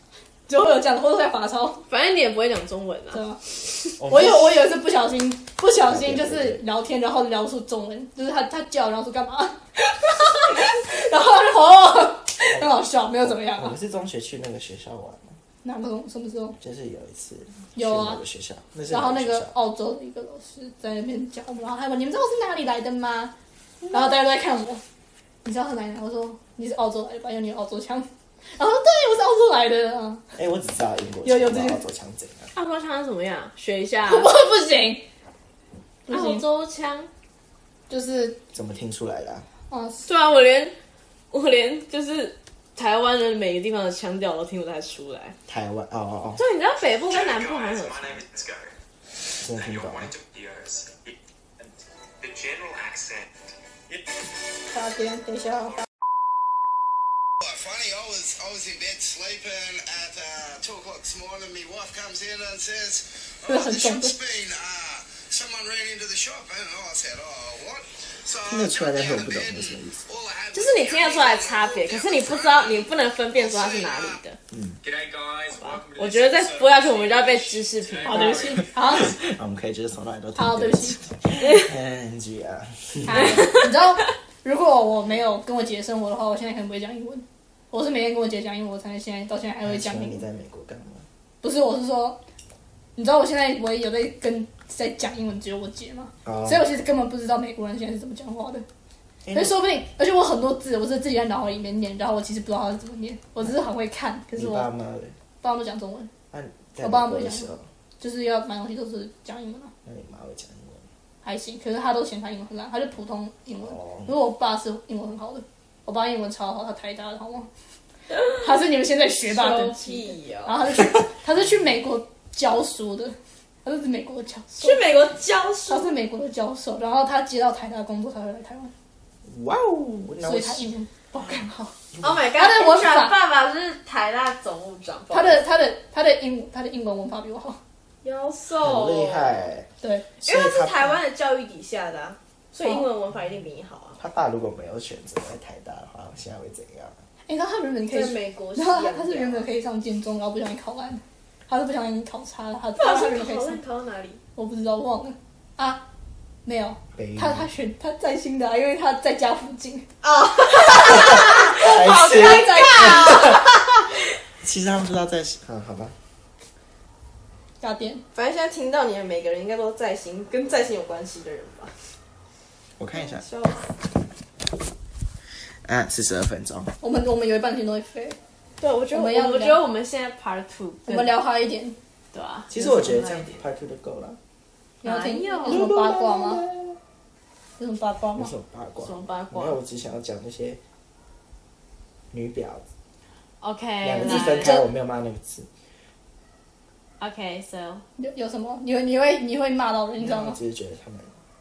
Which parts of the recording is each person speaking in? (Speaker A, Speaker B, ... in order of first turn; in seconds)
Speaker A: 0.5-1.9, 3.1-13.8, 15.6-16.6, 17.8-18.2, 18.9-23.4, 23.9-24.8, 25.4-30.2, 31.2-31.8, 34.1-35.1, 36.1-36.4, 37.9-38.4, 39.7-40.1, 54.7-55.8, 63.5-64.2, 78.0-79.2, 80.3-81.0, 83.1-90.2, 91.4-92.2, 93.0-98.7, 99.3-104.7, 105.4-106.1, 106.8-107.5, 108.0-109.7, 111.2-117.5, 118.1-125.0, 125.7-128.7, 130.2-131.8, 132.4-133.2, 135.1-137.6, 139.8-140.1, 147.3-153.6, 154.4-155.8, 156.4-159.9, 160.8-163.4, 167.6-168.0, 176.8-178.2, 178.9-179.6, 180.9-181.8, 184.8-186.5, 187.6-188.3, 194.0-194.7, 198.0-200.4
Speaker B: 1.9-3.2, 23.8-24.2, 32.5-34.3, 36.1-37.1, 40.0-40.8, 41.3-45.4, 46.4-48.2, 70.5-74.4, 75.6-78.6, 83.2-83.8, 119.3-120.6, 124.5-125.9, 132.0-135.4, 138.0-139.5, 140.2-144.0, 147.9-149.5, 152.8-154.2, 160.0-163.7, 168.2-171.7, 172.9-173.7, 178.6-181.2, 182.1-183.4, 184.8-185.7, 188.8-189.6, 193.4-194.6, 197.0-197.8
Speaker C: 4.0-4.6, 5.8-6.6, 13.5-15.4, 16.6-19.5, 30.4-32.5, 38.5-39.5, 45.5-46.4, 49.4-50.1, 68.5-70.0, 78.4-83.5, 89.6-91.0, 96.3-96.7, 99.2-99.6, 104.3-105.2, 106.3-107.6, 109.8-110.8, 113.7-114.1, 129.3-130.7, 138.6-139.7, 140.2-141.0, 144.0-147.0, 157.0-157.5, 160.9-163.4, 164.4-165.9, 172.8-173.2, 175.7-176.7, 182.5-184.2, 185.5-186.8, 188.2-190.6, 192.1-192.7, 193.8-195.5, 200.0-201.1
Speaker D: 47.1-48.8, 49.5-53.4, 74.8-78.7
Speaker E: 57.4-74.2